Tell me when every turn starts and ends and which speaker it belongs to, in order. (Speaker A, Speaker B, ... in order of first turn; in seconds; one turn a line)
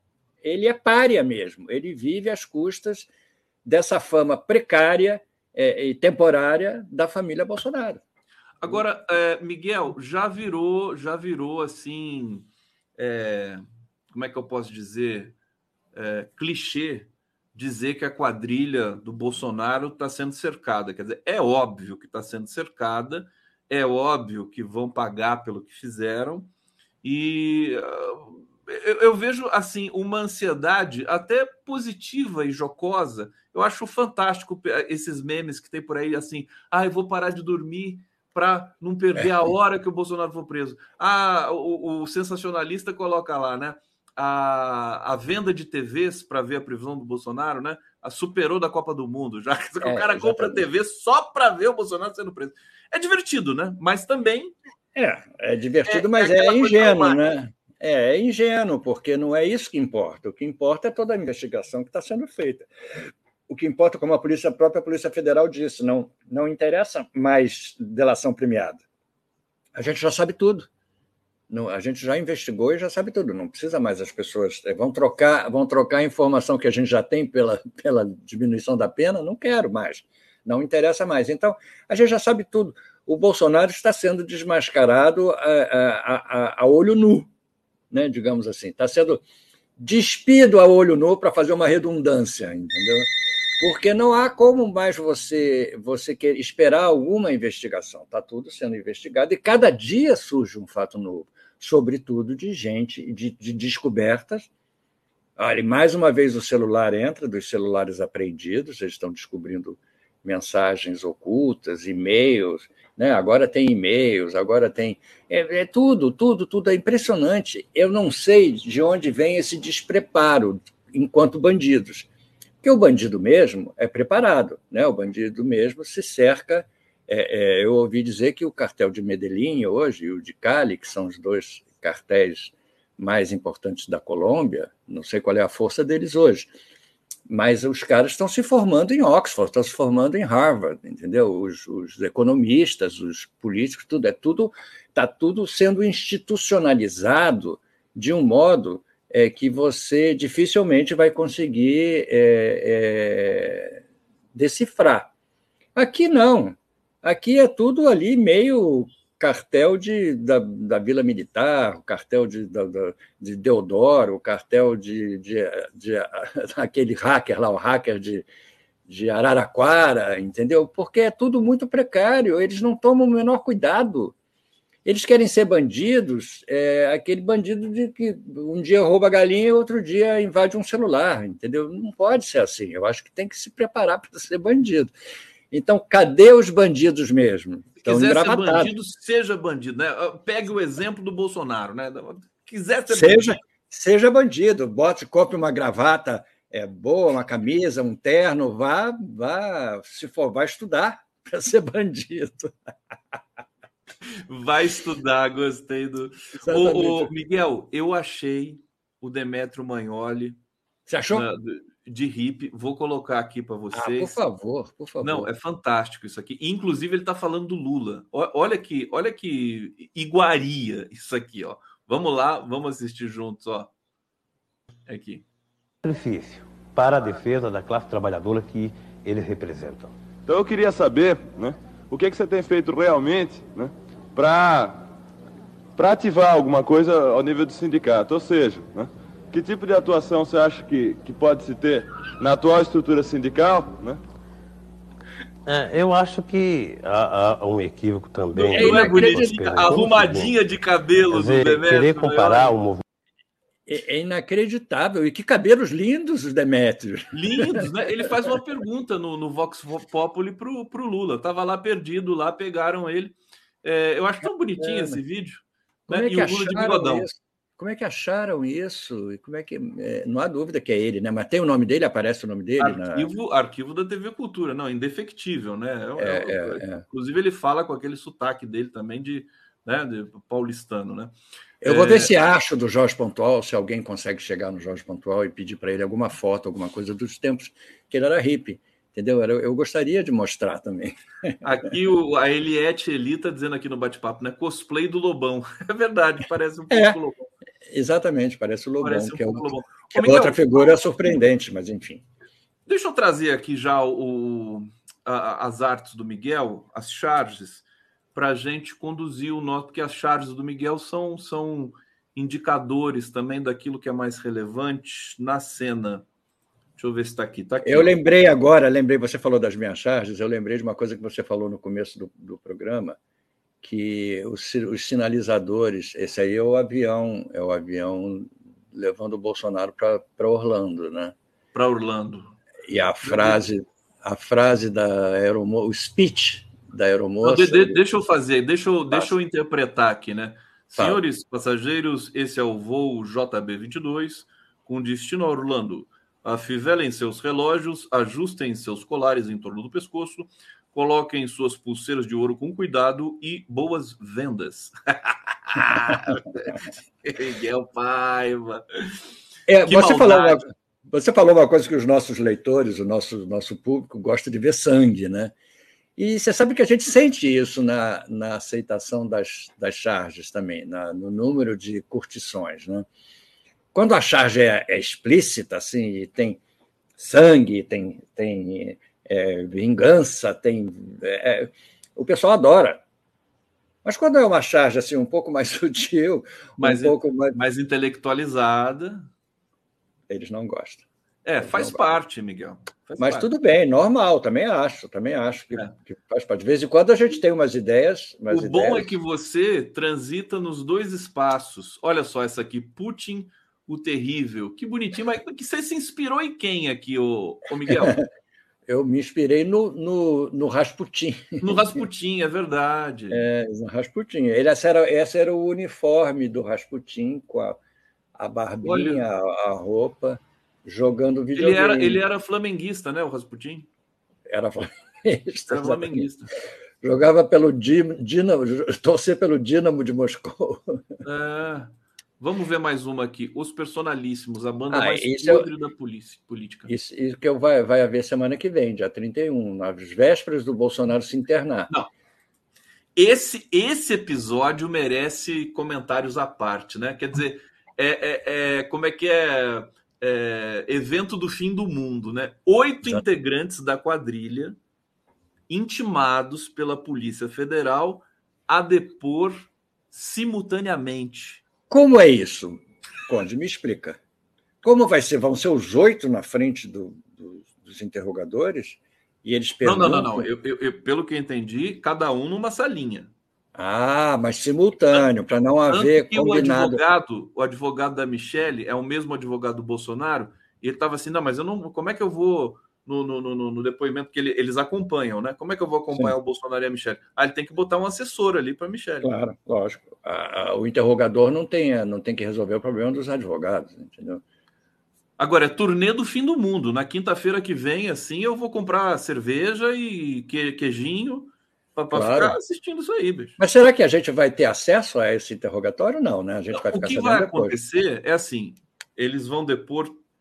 Speaker A: 0.4-3.1
Speaker A: 3.6-8.0
Speaker B: 8.6-13.6
Speaker B: 14.1-15.3
Speaker B: 15.9-26.5
Speaker B: 27.0-54.5
Speaker A: 39.2-39.4
Speaker A: 49.8-50.6
Speaker A: 55.0-62.7
Speaker B: 55.9-57.2
Speaker A: 63.5-68.8
Speaker A: 69.7-70.7
Speaker A: 71.5-87.3
Speaker A: 87.9-89.2
Speaker A: 89.8-104.5
Speaker A: 105.4-122.1
Speaker A: 122.6-136.5
Speaker A: 137.3-153.8
Speaker A: 154.3-155.1
Speaker A: 155.8-168.3
Speaker A: 168.9-174.1
Speaker A: 174.8-184.9
Speaker A: 185.5-188.7
Speaker B: 187.8-193.4
Speaker A: 192.9-202.5
Speaker B: 204.3-210.4
Speaker A: 206.4-207.1
Speaker A: 210.9-211.3
Speaker B: 211.1-214.2
Speaker A: 213.7-215.3
Speaker B: 215.0-223.7
Speaker B: 224.9-225.2
Speaker C: 225.8-229.9
Speaker D: 230.2-234.8
Speaker D: 235.8-244.0
Speaker C: 245.4-250.3
Speaker B: 248.3-252.5
Speaker A: 248.5-249.3
Speaker C: 251.1-252.8
Speaker A: 253.7-257.6
Speaker B: 257.1-267.1
Speaker A: 264.6-265.0
Speaker A: 265.9-273.1
Speaker B: 272.6-282.1
Speaker A: 276.0-276.8
Speaker A: 281.6-291.4
Speaker B: 291.4-297.3
Speaker A: 296.7-297.0
Speaker A: 297.7-302.0
Speaker B: 298.8-301.1
Speaker B: 302.7-316.0
Speaker B: 316.8-318.0
Speaker A: 317.6-323.0
Speaker A: 323.6-331.1
Speaker B: 331.5-332.4
Speaker A: 332.7-337.8
Speaker B: 333.0-333.4
Speaker B: 337.2-359.0
Speaker A: 355.9-356.2
Speaker A: 359.5-365.3
Speaker B: 359.7-360.4
Speaker A: 366.0-372.9
Speaker A: 373.7-376.4
Speaker A: 377.0-382.8
Speaker A: 383.8-387.4
Speaker B: 386.6-389.1
Speaker A: 390.1-390.9
Speaker B: 391.2-393.3
Speaker A: 391.4-392.0
Speaker A: 393.0-398.9
Speaker B: 398.3-408.0
Speaker A: 407.7-408.0
Speaker A: 408.7-411.8
Speaker B: 411.4-413.2
Speaker A: 413.1-417.6
Speaker A: 418.2-422.0
Speaker B: 418.6-419.0
Speaker B: 421.4-423.7
Speaker A: 424.3-426.1
Speaker B: 425.5-426.3
Speaker A: 426.8-430.8
Speaker B: 431.0-436.7
Speaker A: 434.7-435.5
Speaker A: 436.7-441.7
Speaker B: 442.9-454.6
Speaker B: 455.5-461.4
Speaker A: 461.7-464.0
Speaker A: 464.6-470.3
Speaker B: 469.6-473.1
Speaker A: 473.5-476.8
Speaker B: 475.7-489.1
Speaker A: 489.0-494.2
Speaker B: 495.2-503.4
Speaker A: 501.9-502.4
Speaker A: 503.4-507.6
Speaker B: 506.5-510.0